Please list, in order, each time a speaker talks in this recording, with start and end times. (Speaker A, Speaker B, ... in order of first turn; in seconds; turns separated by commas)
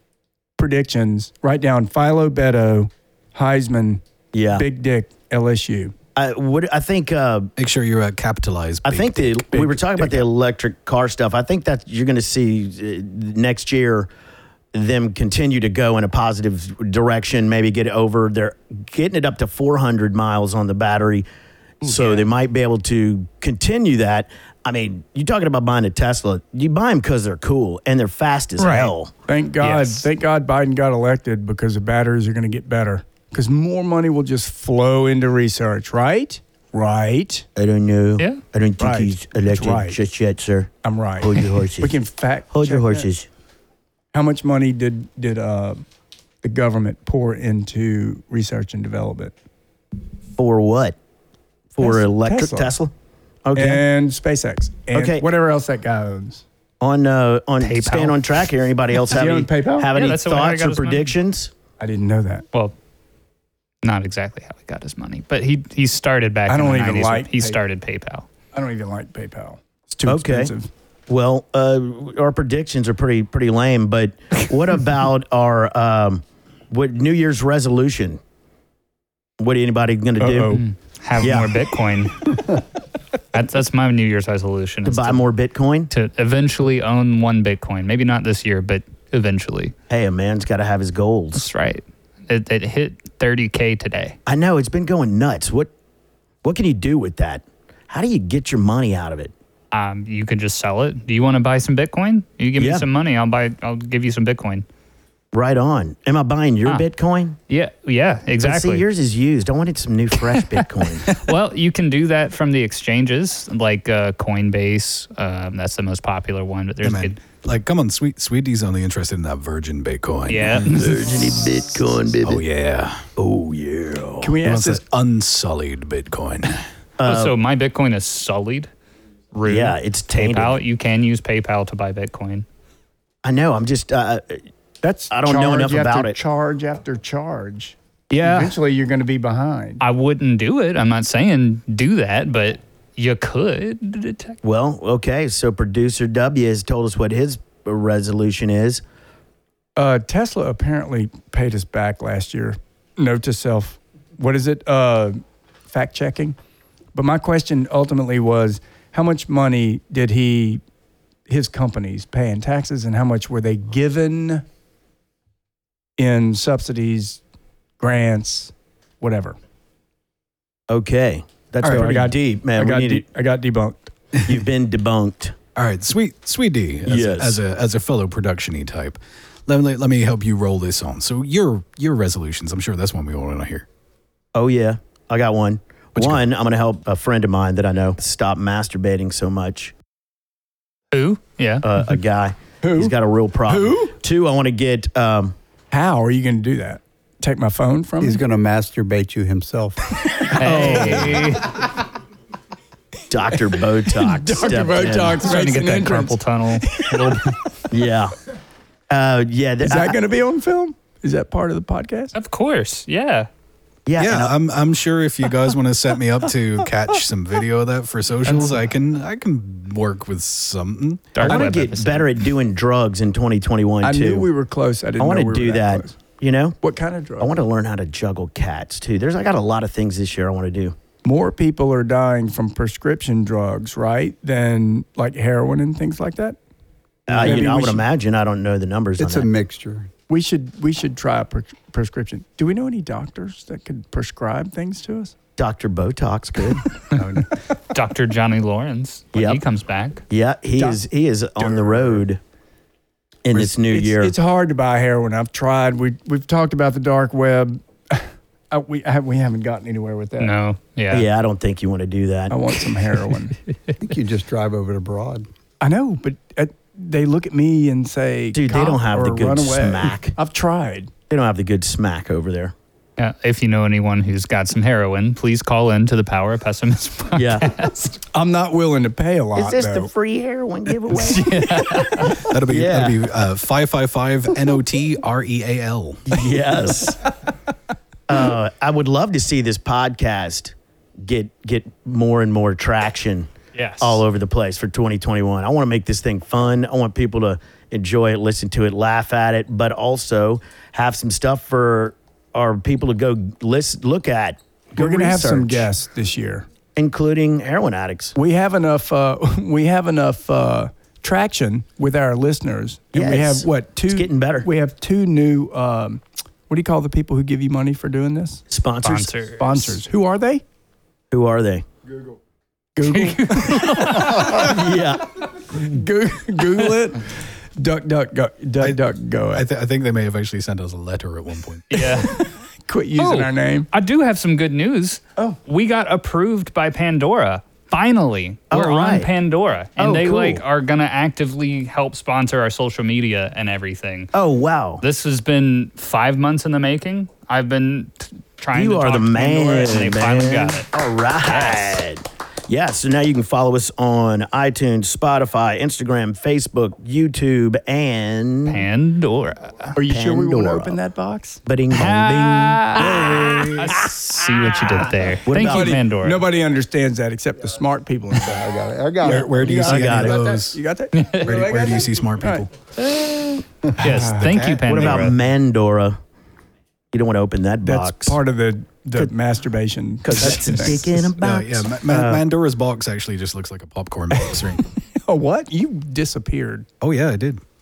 Speaker A: 0.6-5.9, Speaker B: 4.3-4.7, Speaker B: 6.2-7.5, Speaker C: 7.6-10.1, Speaker B: 8.8-14.1, Speaker B: 14.7-21.3, Speaker B: 21.8-29.1, Speaker D: 28.6-28.9, Speaker A: 29.3-37.5, Speaker D: 29.6-30.1, Speaker B: 37.6-42.0, Speaker A: 38.8-40.0, Speaker A: 40.8-43.1, Speaker B: 42.5-43.3, Speaker A: 44.1-45.8, Speaker A: 46.4-49.3, Speaker B: 50.4-51.0, Speaker B: 51.7-52.9, Speaker A: 51.8-52.7, Speaker B: 53.5-53.8, Speaker A: 53.5-56.4, Speaker B: 54.9-55.3, Speaker B: 56.8-61.5, Speaker D: 57.6-58.3, Speaker A: 59.1-59.9, Speaker D: 59.9-61.1, Speaker A: 61.8-62.5, Speaker D: 63.8-68.3, Speaker A: 66.5-67.6, Speaker A: 68.5-70.7, Speaker B: 70.1-70.5, Speaker B: 71.1-78.2, Speaker B: 79.4-80.6, Speaker A: 80.2-80.7, Speaker D: 80.5-82.6, Speaker B: 81.2-81.6, Speaker D: 83.3-85.2, Speaker B: 84.8-85.9, Speaker D: 85.9-89.7, Speaker B: 89.9-91.5, Speaker D: 91.3-94.2, Speaker B: 94.3-95.7, Speaker B: 96.4-99.3, Speaker D: 99.7-104.7, Speaker B: 102.6-102.8, Speaker B: 105.3-107.4, Speaker D: 107.5-108.8, Speaker B: 108.4-111.2, Speaker D: 110.3-117.2, Speaker C: 116.8-120.7, Speaker D: 120.3-121.1, Speaker B: 120.6-122.4, Speaker C: 122.2-123.0, Speaker B: 123.2-124.3, Speaker A: 124.2-124.8, Speaker C: 124.4-126.6, Speaker B: 127.0-127.3, Speaker D: 127.0-128.7, Speaker D: 129.4-132.4, Speaker B: 129.4-130.6, Speaker B: 133.2-134.4, Speaker A: 134.8-139.8, Speaker B: 135.1-136.2, Speaker D: 138.1-138.6, Speaker D: 139.8-144.4, Speaker B: 144.4-148.8, Speaker A: 149.8-156.4, Speaker A: 156.9-160.6, Speaker A: 161.3-164.4, Speaker A: 166.0-167.2, Speaker A: 167.8-169.4, Speaker B: 170.7-173.1, Speaker A: 171.6-173.9, Speaker B: 174.2-175.4, Speaker C: 175.6-183.7, Speaker B: 176.9-177.4, Speaker B: 184.3-189.7, Speaker D: 190.9-191.7, Speaker B: 191.6-195.3, Speaker A: 192.6-192.9, Speaker A: 193.5-193.9, Speaker A: 195.7-198.2, Speaker E: 198.0-199.9, Speaker D: 200.4-201.6, Speaker B: 200.4-201.4, Speaker A: 200.6-201.0, Speaker B: 203.1-205.3, Speaker A: 203.9-207.3, Speaker D: 205.2-207.6, Speaker B: 207.7-208.1, Speaker B: 208.9-210.0, Speaker A: 209.6-212.1, Speaker D: 212.2-213.3, Speaker B: 213.9-214.3, Speaker C: 214.0-221.4, Speaker D: 221.2-222.1, Speaker B: 221.2-224.3, Speaker A: 223.8-225.9, Speaker B: 225.0-226.6, Speaker A: 226.6-227.3, Speaker B: 227.2-230.8, Speaker A: 231.1-236.4, Speaker B: 237.1-239.3, Speaker A: 237.1-237.8, Speaker E: 237.2-237.5, Speaker E: 239.0-239.9, Speaker A: 240.1-245.1, Speaker B: 245.4-246.7, Speaker A: 246.9-247.2, Speaker D: 247.7-250.0, Speaker B: 249.1-249.4, Speaker B: 250.1-252.2, Speaker A: 251.4-252.0, Speaker B: 253.2-254.1, Speaker A: 253.3-260.3, Speaker D: 260.2-261.1, Speaker B: 260.9-262.4, Speaker A: 262.3-263.4, Speaker E: 263.8-265.3, Speaker A: 265.6-270.9, Speaker B: 268.3-270.2, Speaker B: 271.1-272.5, Speaker D: 273.0-278.0, Speaker B: 277.1-277.5, Speaker A: 278.1-279.9, Speaker B: 279.4-281.7, Speaker D: 281.0-282.2, Speaker C: 282.2-286.2, Speaker B: 282.5-283.0, Speaker B: 286.1-287.0, Speaker B: 288.1-305.7, Speaker D: 293.6-294.0, Speaker A: 304.8-306.5, Speaker B: 306.8-308.2, Speaker A: 308.2-318.4, Speaker B: 312.9-314.5, Speaker B: 318.5-319.1, Speaker D: 318.8-319.8, Speaker A: 319.4-320.4, Speaker B: 321.1-321.7, Speaker A: 322.8-324.6, Speaker D: 322.9-324.3, Speaker B: 324.2-325.6, Speaker A: 325.4-329.5, Speaker C: 329.3-332.1, Speaker D: 331.7-332.2, Speaker A: 331.8-333.7, Speaker D: 333.0-344.1, Speaker B: 338.5-339.1, Speaker B: 339.8-340.4, Speaker B: 344.1-344.8, Speaker D: 344.8-350.7, Speaker B: 348.5-358.7, Speaker D: 351.2-351.8, Speaker D: 358.5-359.7, Speaker A: 359.8-361.4, Speaker B: 359.8-360.8, Speaker B: 361.5-363.7, Speaker D: 361.7-366.2, Speaker C: 363.3-363.6, Speaker A: 363.9-364.7, Speaker B: 365.3-365.8, Speaker A: 365.4-368.4, Speaker E: 368.2-370.4, Speaker C: 369.0-370.6, Speaker B: 369.6-370.2, Speaker A: 370.0-372.5, Speaker D: 370.9-371.2, Speaker C: 371.2-372.5, Speaker D: 372.8-375.1, Speaker A: 373.8-374.4, Speaker C: 374.1-375.1, Speaker B: 374.6-376.0, Speaker B: 376.9-378.2, Speaker A: 377.6-380.8, Speaker B: 380.0-382.2, Speaker C: 380.2-384.6, Speaker A: 384.1-386.7, Speaker C: 386.8-387.4